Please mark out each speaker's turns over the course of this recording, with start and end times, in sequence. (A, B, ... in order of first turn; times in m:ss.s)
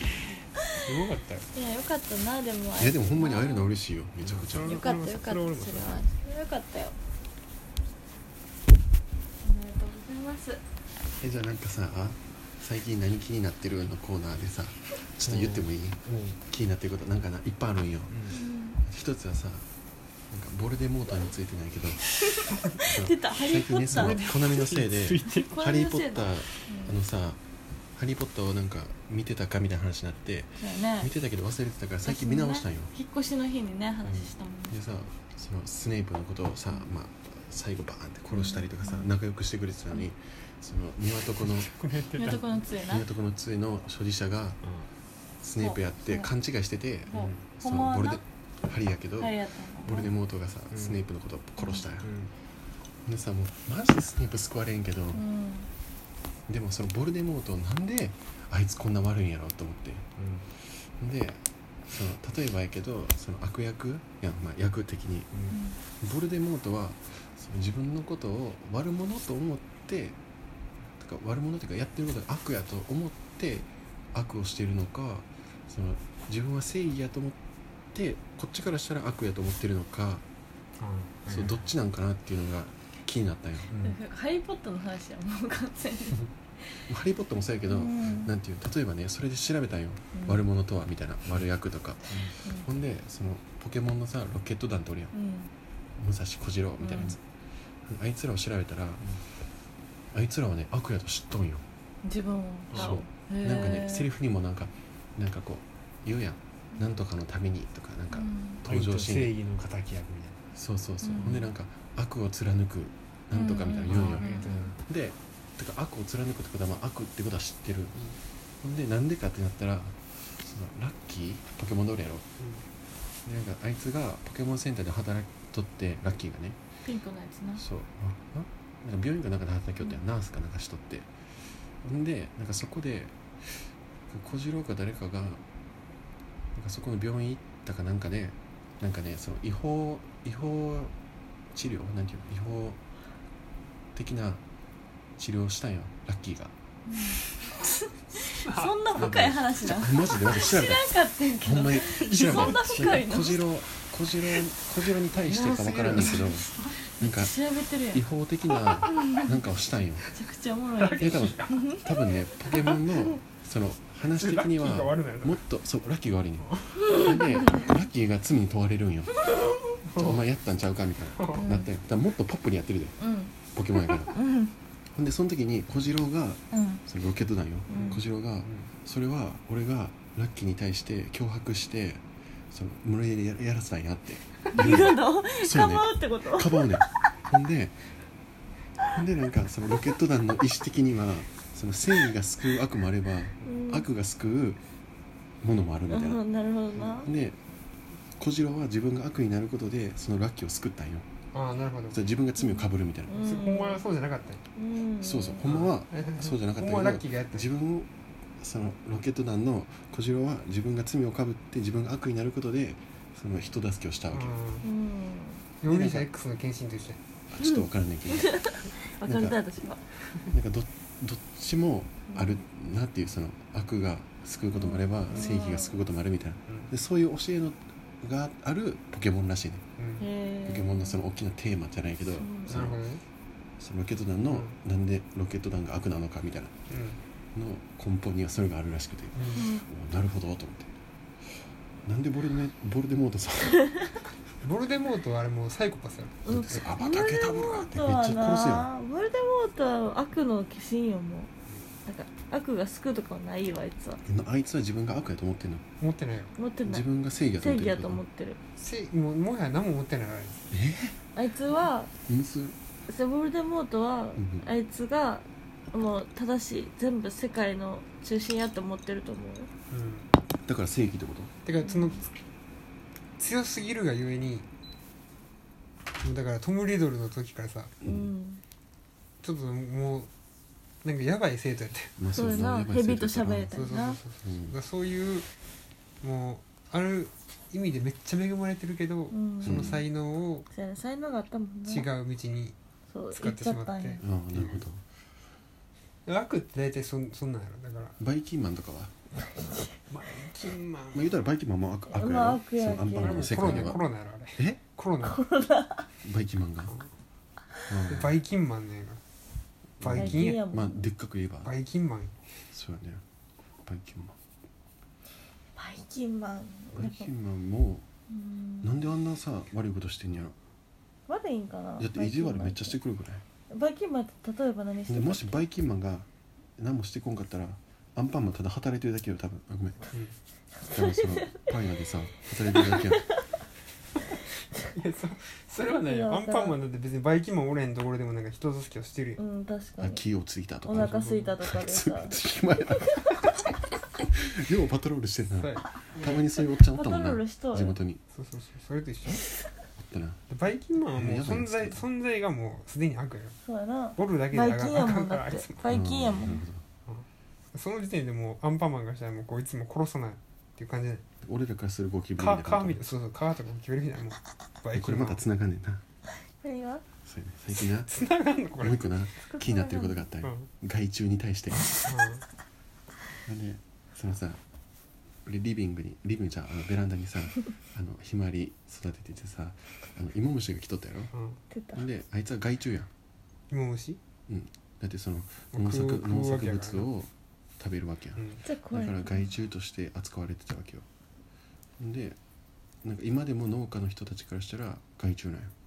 0:00.2-0:01.5 A
0:01.5-0:03.7 B
0:02.8-0:04.8 C
0:04.2-0:06.1 A
0:04.7-0:07.0 B
0:09.4-0:10.6 B
0:11.2-0:19.7 C
0:15.3-0:16.4 A
0:18.1-0:18.4 A
0:18.3-0:18.8 B
0:20.3-0:22.1 C
0:22.4-0:22.8 A
0:22.4-0:24.2 B
0:22.8-0:27.4 C
0:23.9-0:25.6 A
0:25.3-0:27.0 B
0:27.9-0:32.9 C
0:30.6-0:31.1 B
0:32.0-0:34.8 B
0:34.0-0:41.7 C
0:38.3-0:39.1 B
0:41.4-0:42.6 A
0:42.2-0:43.1 B
0:42.8-0:44.6 C
0:44.6-0:44.9 A
0:45.4-0:52.1 C
0:45.6-0:46.3 B
0:47.1-0:47.5 A
0:47.1-0:48.2 B
0:49.2-0:50.1 B
0:50.7-0:51.0 A
0:51.6-0:51.8 B
0:52.0-0:52.3 A
0:53.0-0:55.2 C
0:55.1-0:55.7 B
0:56.5-1:00.1 C
1:00.2-1:00.5 A
1:01.0-1:05.3 C
1:05.3-1:05.6 A
1:05.5-1:05.8 B
1:06.0-1:10.2 C
1:11.0-1:17.4 C
1:17.9-1:20.2 C
1:20.8-1:21.7 A
1:21.3-1:23.7 C
1:23.7-1:24.0 A
1:23.8-1:26.9 B
1:26.9-1:35.1 C
1:27.7-1:28.3 B
1:30.1-1:30.4 B
1:32.1-1:32.4 A
1:35.1-1:35.5 B
1:36.0-1:37.2 C
1:36.8-1:37.2 B
1:37.8-1:39.0 C
1:40.1-1:41.6 C
1:42.0-1:44.1 B
1:42.7-1:43.0 A
1:42.7-1:49.4 C
1:48.1-1:48.6 B
1:48.7-1:50.4 A
1:50.6-1:58.0 C
1:51.0-1:51.5 B
1:53.3-1:54.6 B
1:53.9-1:54.8 A
1:58.6-2:02.3 C
2:02.4-2:02.6 A
2:03.2-2:06.6 C
2:06.8-2:07.6 B
2:07.6-2:11.1 C
2:11.8-2:15.4 C
2:16.6-2:20.9 C
2:21.5-2:22.8 C
2:24.0-2:24.4 C
2:25.2-2:26.5 C
2:26.9-2:27.2 B
2:28.2-2:33.4 B
2:28.3-2:28.8 A
2:28.9-2:36.5 C
2:31.8-2:33.0 A
2:35.3-2:36.8 A
2:35.9-2:38.0 B
2:37.0-2:37.4 C
2:37.9-2:40.1 C
2:38.8-2:39.4 B
2:40.1-2:42.0 B
2:40.8-2:41.6 A
2:41.0-2:49.3 C
2:42.5-2:42.8 A
2:44.2-2:45.4 A
2:46.4-2:46.8 A
2:46.9-2:47.7 B
2:49.8-2:50.2 A
2:50.0-2:54.2 C
2:51.2-2:51.5 A
2:51.4-2:51.7 B
2:53.0-2:53.3 B
2:54.1-2:54.5 B
2:54.9-3:07.8 C
2:56.5-2:56.8 B
2:57.7-2:58.0 B
2:57.7-2:58.7 A
3:04.5-3:06.9 B
3:08.9-3:14.6 C
3:13.4-3:13.9 B
3:15.4-3:16.2 C
3:15.9-3:17.1 B
3:16.9-3:17.4 C
3:18.2-3:21.1 C
3:21.3-3:22.0 A
3:21.9-3:23.2 C
3:22.5-3:23.8 B
3:23.2-3:24.4 A
3:24.6-3:25.4 B
3:25.0-3:34.4 C
3:25.4-3:27.5 A
3:34.1-3:34.7 A
3:34.6-3:35.4 B
3:35.6-3:37.0 A
3:35.6-3:36.1 C
3:37.3-3:39.4 C
3:37.4-3:39.8 B
3:40.3-3:49.6 C
3:42.1-3:42.4 B
3:44.6-3:45.8 B
3:49.8-3:50.1 A
3:50.0-3:51.0 B
3:50.4-3:52.8 C
3:52.1-3:52.6 B
3:52.5-3:53.0 A
3:53.6-3:56.6 C
3:54.3-3:54.6 A
3:56.7-3:57.0 A
3:57.3-4:00.7 C
3:59.2-3:59.5 A
3:59.3-3:59.7 B
4:01.8-4:03.7 C
4:04.4-4:06.6 A
4:06.3-4:11.3 B
4:06.3-4:08.7 C
4:11.9-4:14.0 B
4:14.0-4:15.6 C
4:15.8-4:16.4 A
4:16.4-4:16.9 B
4:16.6-4:18.0 C
4:17.4-4:18.4 B
4:18.6-4:20.5 A
4:20.5-4:21.0 C
4:21.2-4:21.9 B
4:22.1-4:22.6 C
4:22.9-4:29.5 B
4:24.2-4:24.5 C
4:29.7-4:30.1 A
4:30.5-4:31.3 C
4:31.4-4:32.1 A
4:31.6-4:32.0 B
4:33.2-4:34.5 A
4:36.0-4:37.7 A
4:37.8-4:38.1 C
4:37.8-4:38.4 B
4:39.2-4:40.1 A
4:40.8-4:42.1 A
4:42.0-4:43.5 C
4:42.1-4:44.0 B
4:43.5-4:45.3 A
4:44.2-4:44.5 C
4:46.0-4:50.5 A
4:49.1-4:49.7 B
4:49.4-4:49.8 C
4:50.5-4:51.9 B
4:51.7-4:52.6 A
4:52.9-4:54.0 B
4:53.2-4:54.6 A
4:54.0-4:54.8 C
4:56.1-4:58.0 A
4:58.0-4:59.0 C
4:59.9-5:01.1 A
5:00.9-5:03.8 C
5:01.9-5:03.8 B
5:03.0-5:05.3 A
5:04.4-5:04.6 C
5:05.0-5:05.9 B
5:06.0-5:06.8 C
5:07.7-5:08.2 C
5:07.9-5:09.0 A
5:09.8-5:11.5 C
5:09.8-5:10.4 A
5:10.0-5:10.8 B
5:11.4-5:12.2 A
5:12.5-5:13.0 C
5:13.6-5:14.2 C
5:15.6-5:17.1 B
5:16.7-5:17.9 C
5:18.1-5:18.7 B
5:18.6-5:20.4 C
5:21.1-5:22.8 B
5:21.8-5:23.2 C
5:23.5-5:25.4 B
5:24.9-5:29.9 C
5:30.7-5:33.1 C
5:30.7-5:31.5 B
5:32.5-5:33.2 B
5:34.7-5:39.2 A
5:35.6-5:36.6 B
5:39.2-5:40.0 B
5:39.8-5:43.4 C
5:40.6-5:42.2 B
5:40.8-5:41.3 A
5:44.1-5:48.0 C
5:45.4-5:46.2 A
5:46.7-5:47.8 B
5:48.1-5:49.4 A
5:49.8-5:50.2 C
5:50.3-5:53.4 A
5:50.9-5:51.8 C
5:53.4-5:56.4 B
5:54.0-5:55.8 A
5:55.7-5:56.6 C
5:56.9-6:01.0 A
6:01.2-6:02.8 C
6:02.2-6:05.2 A
6:04.7-6:05.8 C
6:06.4-6:06.8 B
6:07.0-6:07.9 C
6:07.8-6:08.8 A
6:08.6-6:11.9 C
6:09.2-6:10.1 B
6:10.2-6:10.5 A
6:11.9-6:12.2 A
6:13.2-6:14.4 C
6:15.2-6:21.1 C
6:21.1-6:21.4 A
6:21.5-6:21.9 B
6:21.7-6:22.9 C
6:23.5-6:24.0 A
6:24.3-6:30.9 C
6:25.5-6:26.9 A
6:28.2-6:28.5 A
6:28.5-6:29.3 B
6:31.8-6:32.2 C
6:32.8-6:35.5 C